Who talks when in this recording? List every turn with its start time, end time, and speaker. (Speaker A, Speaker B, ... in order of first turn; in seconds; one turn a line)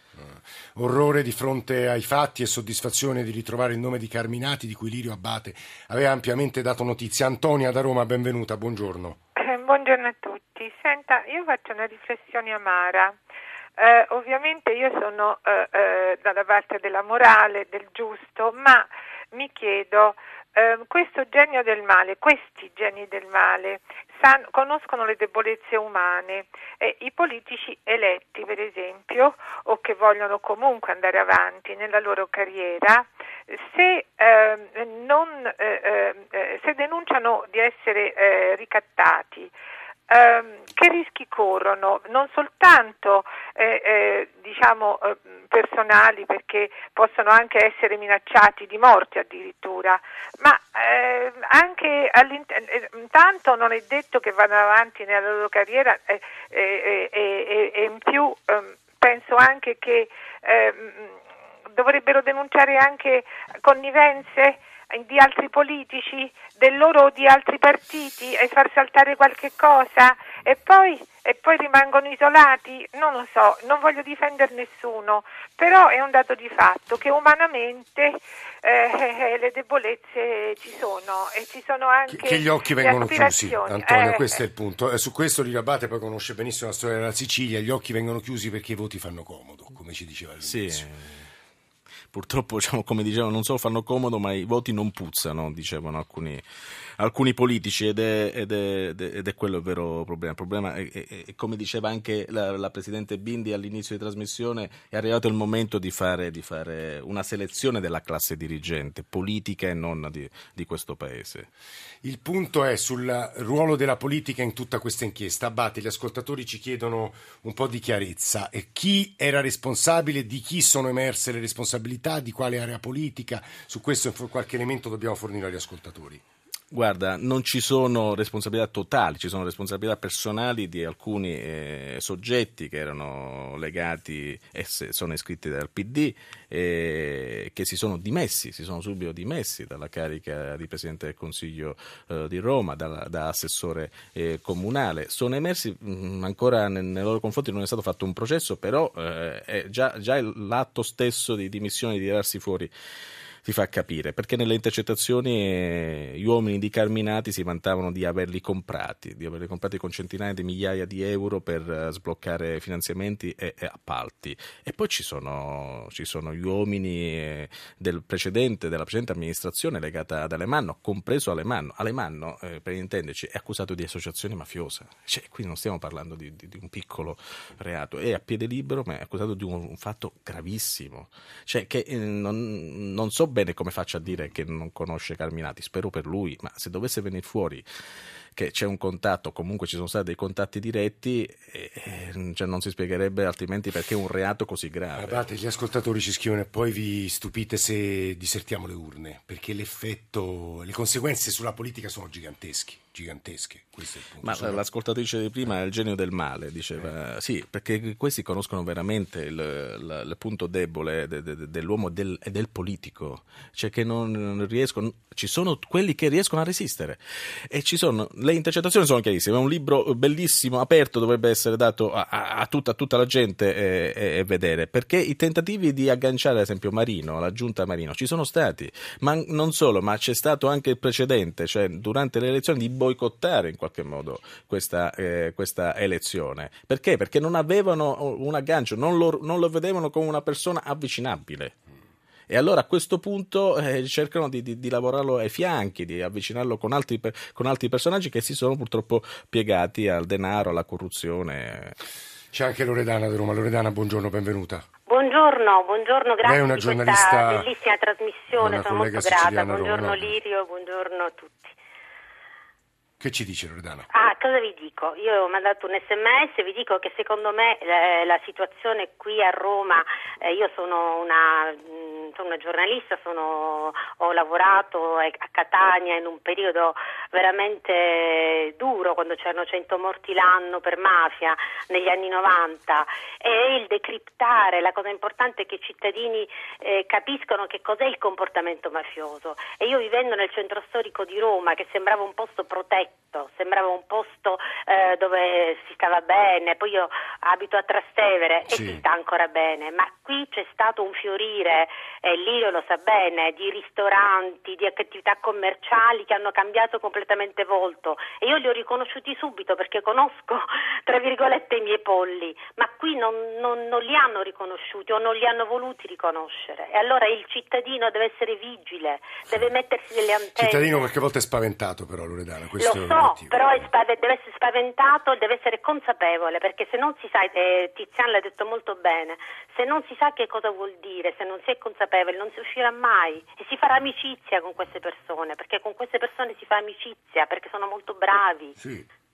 Speaker A: 0.2-9.2
Speaker B: 9.4-13.2
Speaker B: 13.8-39.5
Speaker B: 40.1-61.2
Speaker B: 61.7-84.4
Speaker A: 82.1-90.9
Speaker C: 90.4-91.3
Speaker C: 92.1-96.4
Speaker C: 97.0-111.5
Speaker A: 112.0-126.2
Speaker C: 126.7-152.7
Speaker C: 153.4-187.7
Speaker C: 188.3-195.2
Speaker A: 195.0-204.6
Speaker C: 204.2-241.6
Speaker C: 242.3-251.8
Speaker A: 252.3-254.6
Speaker D: 254.9-261.6
Speaker A: 256.2-257.5
Speaker A: 258.3-260.1
Speaker A: 263.0-263.9
Speaker D: 263.9-320.8
Speaker A: 298.5-298.8
Speaker A: 320.4-323.4
Speaker D: 322.6-338.6
Speaker A: 338.6-338.9